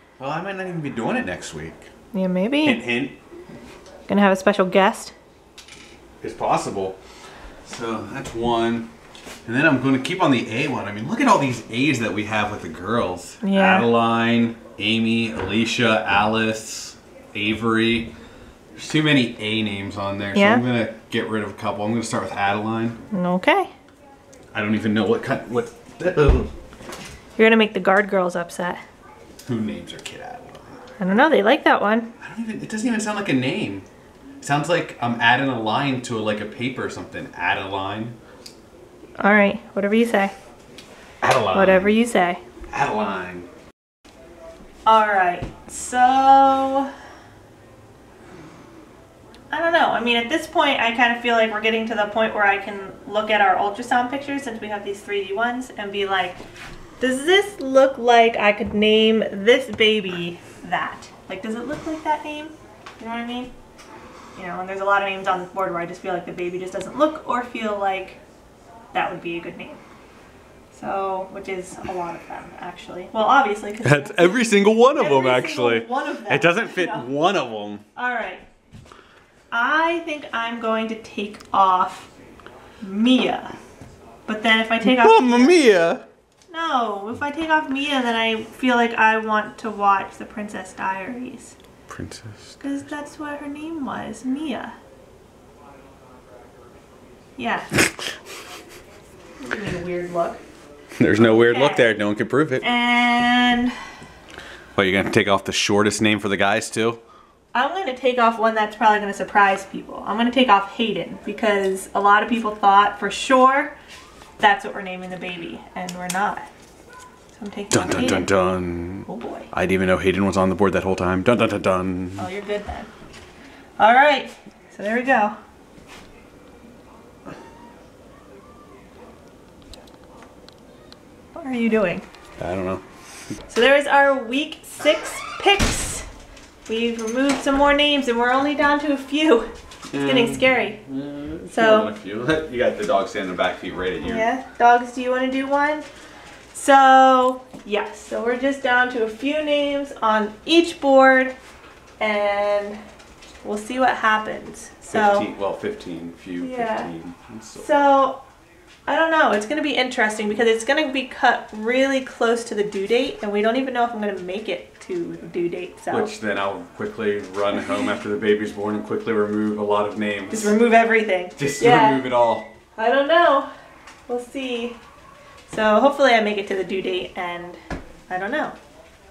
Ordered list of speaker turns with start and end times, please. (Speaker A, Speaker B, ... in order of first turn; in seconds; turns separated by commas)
Speaker A: 0.2-1.9, Speaker B: 2.1-2.8, Speaker A: 2.6-3.2, Speaker B: 4.1-5.2, Speaker A: 6.2-7.0, Speaker A: 7.7-8.9, Speaker A: 9.5-18.1, Speaker B: 13.4-13.9, Speaker A: 18.8-23.0, Speaker B: 20.3-20.6, Speaker B: 23.1-23.7, Speaker A: 24.5-26.5, Speaker B: 27.4-28.8, Speaker A: 29.5-30.8, Speaker B: 31.0-32.1, Speaker A: 32.2-33.9, Speaker A: 34.4-38.2, Speaker B: 39.2-40.3, Speaker A: 41.2-42.0, Speaker B: 41.5-42.4, Speaker A: 42.7-43.5, Speaker B: 44.9-46.9, Speaker B: 49.5-56.4, Speaker B: 57.0-63.5, Speaker B: 64.4-68.2, Speaker B: 68.9-69.8, Speaker B: 70.7-77.1, Speaker A: 73.8-77.8, Speaker B: 78.0-78.5, Speaker B: 79.5-82.1, Speaker B: 82.8-83.5, Speaker B: 84.3-85.6, Speaker A: 84.8-86.0, Speaker B: 86.5-91.6, Speaker A: 91.9-92.6, Speaker B: 92.6-94.8, Speaker B: 97.4-97.8, Speaker B: 99.4-100.4, Speaker A: 101.0-102.7, Speaker B: 101.2-101.9, Speaker B: 102.6-103.7, Speaker A: 104.8-107.0, Speaker B: 107.5-113.7, Speaker B: 114.4-116.5, Speaker B: 117.3-118.3, Speaker A: 117.7-122.3, Speaker B: 119.1-119.5, Speaker B: 122.2-122.9, Speaker B: 123.8-125.4, Speaker B: 131.3-132.1, Speaker A: 132.4-132.8, Speaker B: 133.5-136.1, Speaker B: 136.7-140.8, Speaker A: 139.9-144.3, Speaker B: 141.5-141.9, Speaker B: 144.0-145.9, Speaker B: 146.5-151.3, Speaker B: 152.0-152.8, Speaker B: 153.4-155.3, Speaker A: 154.9-157.9, Speaker B: 156.4-156.9, Speaker B: 157.6-158.2, Speaker B: 158.9-166.1, Speaker A: 165.9-170.6, Speaker B: 170.3-172.1, Speaker A: 171.4-172.5, Speaker B: 172.8-173.5, Speaker B: 174.1-174.8, Speaker B: 175.5-177.6, Speaker B: 178.1-178.6